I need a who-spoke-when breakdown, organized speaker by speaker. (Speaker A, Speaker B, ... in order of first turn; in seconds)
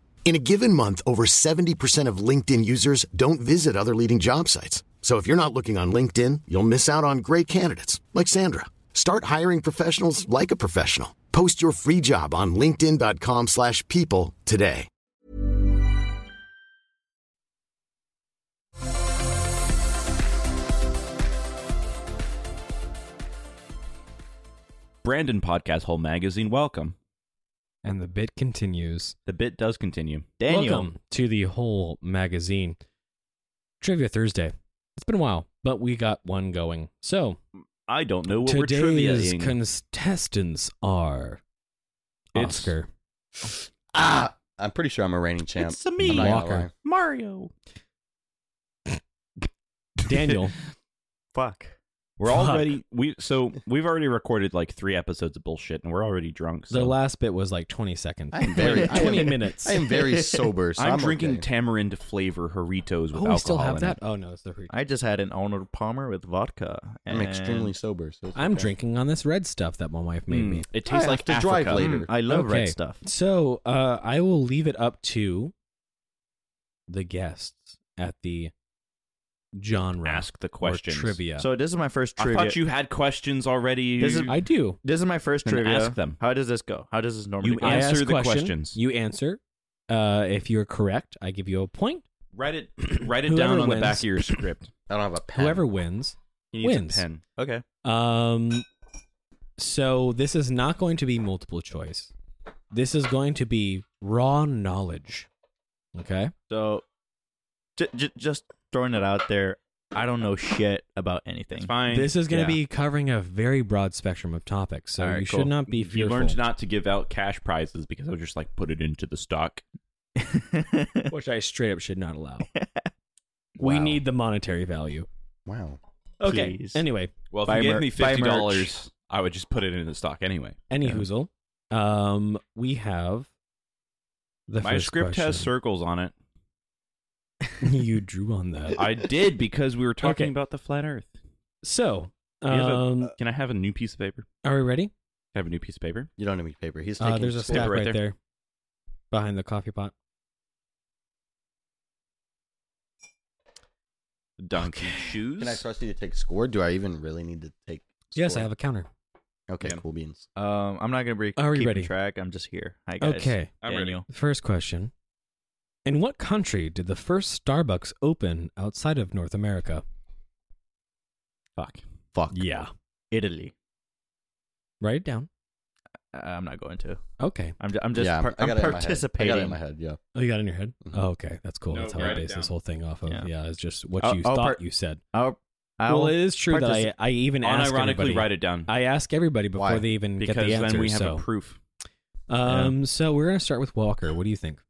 Speaker A: 0.3-14.9
Speaker B: 25.0-26.9, 29.3-30.9, 37.9-39.6, 42.4-42.8, 45.6-47.5, 50.1-50.4, 52.2-57.0, 60.8-64.0, 70.3-71.9, 80.0-81.2, 82.2-84.3, 85.5-86.2, 87.4-88.8, 92.3-94.7, 96.5-97.2, 111.5-112.6, 115.7-119.6, 127.3-130.6, 134.6-136.1, 138.7-141.1, 142.5-144.3, 145.3-146.1, 147.4-148.0, 154.4-155.6, 163.6-164.0, 171.6-171.8, 181.7-182.5, 187.4-188.7, 190.2-191.6
Speaker C: 27.8-29.1, 30.5-32.8, 33.8-37.4, 38.4-41.4, 42.3-42.9, 46.0-46.7, 50.0-50.5, 52.2-52.7, 56.7-59.8, 63.1-64.7, 68.3-70.7, 72.3-75.5, 76.9-78.5, 79.6-81.5, 84.3-84.8, 87.6-92.0, 92.9-94.5, 95.3-97.0, 97.8-98.7, 99.6-102.1, 102.7-105.3, 106.0-106.3, 111.9-116.4, 121.1-122.5, 123.6-125.1, 126.2-127.1, 130.7-133.3, 134.5-135.5, 137.6-138.8, 140.0-140.3, 141.6-143.2, 144.4-144.9, 147.0-148.2, 149.1-149.9, 154.6-155.1, 158.2-158.9, 161.4-161.9, 163.0-163.6, 164.1-164.9, 165.9-169.8, 172.3-172.7, 174.8-175.3, 177.2-177.6, 180.1-185.0, 185.9-191.2, 192.3-194.6
Speaker D: 30.4-30.8, 51.3-51.8, 58.6-60.5, 64.7-67.7, 71.7-73.0, 81.4-82.6, 84.0-88.0, 97.4-97.7, 106.5-106.8, 107.8-111.7, 115.0-115.6, 120.2-121.1, 122.5-122.9, 123.6-124.0, 126.2-126.8, 127.5-128.7, 160.4-164.1, 173.1-173.5, 176.1-177.0, 177.6-179.6, 184.0-184.6, 185.1-186.9, 192.5-192.8
Speaker E: 43.4-46.7, 58.3-61.4, 67.1-68.7, 70.9-72.1, 94.9-95.7, 125.5-125.8, 146.2-147.8, 155.4-158.5, 159.5-160.3, 172.2-172.4, 178.0-180.0, 189.6-189.8